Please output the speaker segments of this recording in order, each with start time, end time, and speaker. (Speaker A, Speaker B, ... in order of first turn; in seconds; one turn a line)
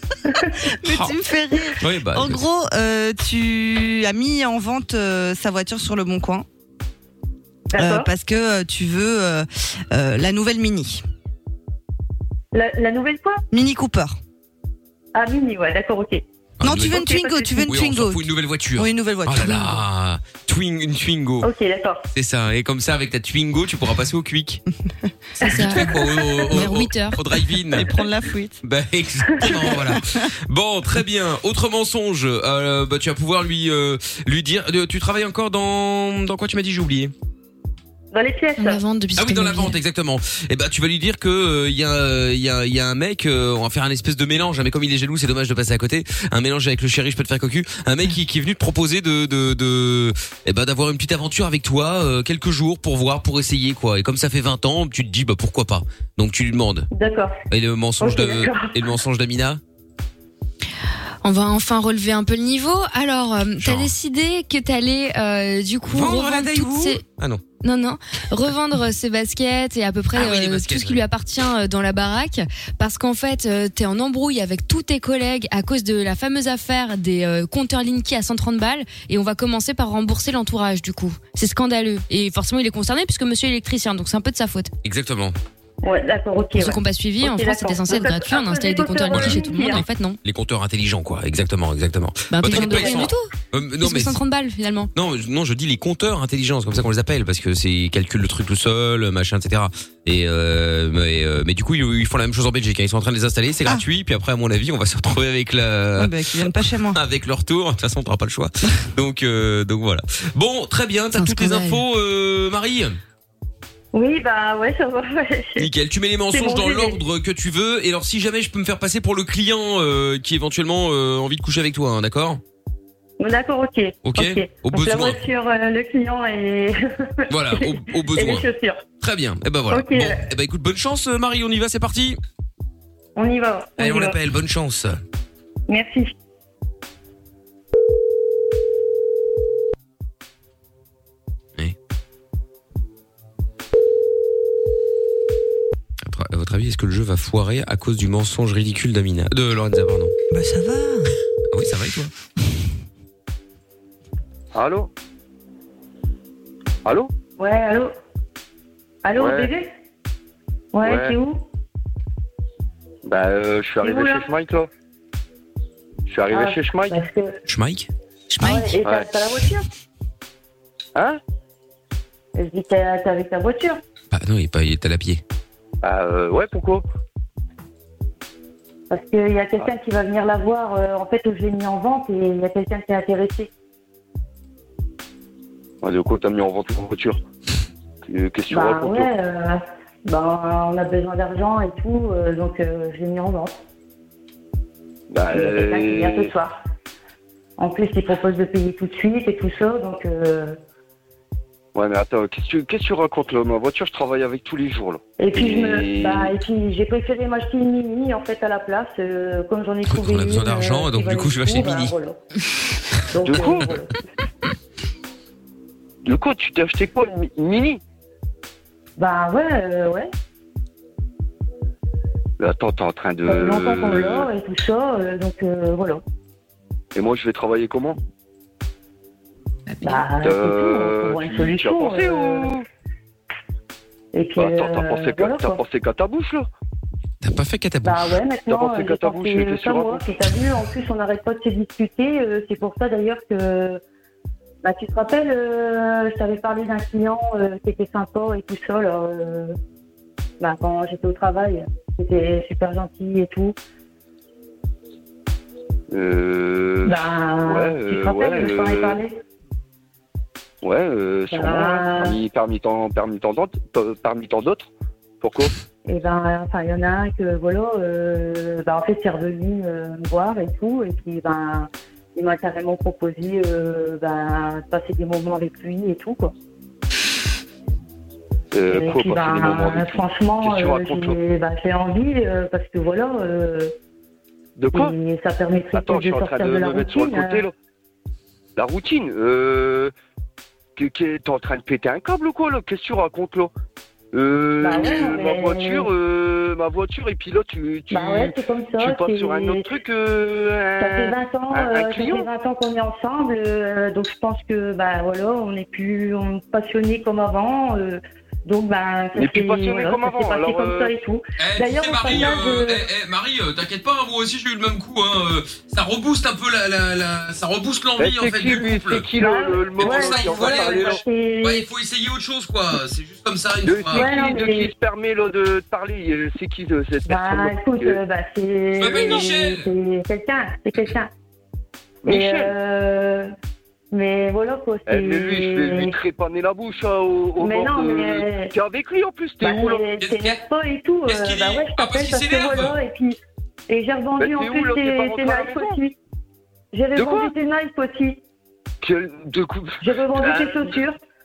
Speaker A: 0.8-6.5
Speaker B: 0.8-1.1
Speaker B: 1.8-2.4
Speaker C: 7.7-8.1
Speaker A: 7.8-11.0
Speaker C: 12.5-13.4
Speaker A: 13.5-14.2
Speaker C: 15.1-16.2
Speaker B: 16.6-21.5
Speaker A: 16.6-18.2
Speaker C: 16.9-17.6
Speaker A: 18.8-19.8
Speaker C: 21.4-22.0
Speaker B: 22.1-24.6
Speaker B: 25.4-27.9
Speaker D: 25.4-25.9
Speaker D: 26.5-27.2
Speaker A: 26.5-26.8
Speaker A: 27.4-28.6
Speaker B: 28.6-37.1
Speaker C: 29.3-29.6
Speaker A: 29.4-30.0
Speaker C: 38.1-38.8
Speaker D: 38.6-39.8
Speaker B: 39.1-56.9
Speaker C: 56.9-57.4
Speaker B: 57.5-59.6
Speaker C: 58.0-58.7
Speaker D: 61.2-67.0
Speaker B: 63.6-63.9
Speaker B: 65.9-67.4
Speaker D: 67.6-84.7
Speaker B: 70.1-71.0
Speaker B: 84.8-85.3
Speaker C: 85.8-89.8
Speaker D: 86.5-90.2
Speaker B: 89.1-89.5
Speaker B: 90.2-94.2
Speaker D: 92.3-93.3
Speaker C: 92.6-93.0
Speaker D: 93.8-94.9
Speaker B: 94.9-113.0
Speaker A: 106.0-107.0
Speaker D: 111.2-111.8
Speaker C: 113.9-115.7
Speaker B: 115.6-122.4
Speaker C: 116.3-117.0
Speaker C: 123.2-126.8
Speaker B: 124.0-125.2
Speaker B: 127.3-128.5
Speaker C: 127.5-128.8
Speaker B: 129.0-132.2
Speaker C: 129.7-130.2
Speaker C: 133.2-134.2
Speaker B: 133.8-135.0
Speaker C: 135.7-136.1
Speaker B: 146.0-150.1
Speaker A: 150.3-151.1
Speaker B: 151.5-152.1
Speaker E: 154.5-154.9
Speaker E: 156.8-157.1
Speaker C: 157.4-157.9
Speaker C: 159.0-159.7
Speaker E: 159.1-159.5
Speaker C: 160.7-161.4
Speaker E: 160.8-161.1
Speaker E: 163.0-164.7
Speaker C: 163.8-164.2
Speaker E: 166.1-167.0
Speaker C: 166.3-167.4
Speaker B: 167.5-168.5
Speaker A: 168.4-168.7
Speaker C: 168.4-169.7
Speaker E: 168.8-169.1
Speaker E: 170.9-171.2
Speaker C: 172.3-173.8
Speaker B: 174.1-175.2
Speaker E: 175.8-176.8
Speaker C: 178.9-183.5
Speaker E: 185.8-187.2
Speaker E: 188.1-189.1
Speaker C: 188.5-193.5
Speaker E: 195.1-196.3
Speaker C: 195.3-196.6
Speaker C: 197.6-200.6
Speaker E: 201.7-206.3
Speaker C: 205.2-212.2
Speaker B: 209.9-211.9
Speaker C: 213.1-213.9
Speaker E: 213.2-213.7
Speaker E: 216.0-217.8
Speaker C: 219.0-220.1
Speaker E: 222.4-224.3
Speaker C: 223.3-226.0
Speaker E: 226.9-228.0
Speaker C: 229.8-232.5
Speaker E: 230.2-232.7
Speaker C: 234.1-235.6
Speaker E: 234.4-236.5
Speaker B: 237.2-238.1
Speaker C: 237.8-243.8
Speaker E: 238.5-240.1
Speaker C: 244.6-249.6
Speaker C: 250.4-253.6
Speaker E: 255.9-259.0
Speaker C: 256.9-259.1
Speaker E: 260.6-264.7
Speaker C: 261.3-262.2
Speaker E: 265.2-265.5
Speaker C: 265.9-276.3
Speaker E: 278.5-281.2
Speaker C: 278.7-283.7
Speaker E: 284.6-284.9
Speaker C: 284.7-287.4
Speaker E: 285.7-287.5
Speaker E: 288.6-289.9
Speaker E: 290.8-293.5
Speaker E: 294.1-302.3
Speaker C: 294.6-295.9
Speaker C: 297.9-299.7
Speaker C: 300.8-312.8
Speaker E: 309.1-310.9
Speaker B: 311.4-319.1
Speaker E: 318.0-321.0
Speaker C: 319.1-321.6
Speaker B: 319.8-320.9
Speaker B: 321.4-324.1
Speaker E: 323.6-328.0
Speaker C: 323.9-324.7
Speaker C: 327.1-331.1
Speaker B: 328.8-329.6
Speaker E: 328.9-329.2
Speaker E: 332.0-332.5
Speaker C: 332.0-333.3
Speaker C: 333.9-335.9
Speaker E: 334.9-339.9
Speaker C: 337.4-338.5
Speaker C: 339.4-343.2
Speaker B: 340.0-340.4
Speaker B: 341.1-342.7
Speaker C: 343.7-345.9
Speaker E: 344.2-345.8
Speaker C: 346.7-348.2
Speaker E: 346.9-347.3
Speaker E: 348.8-350.8
Speaker C: 349.8-351.0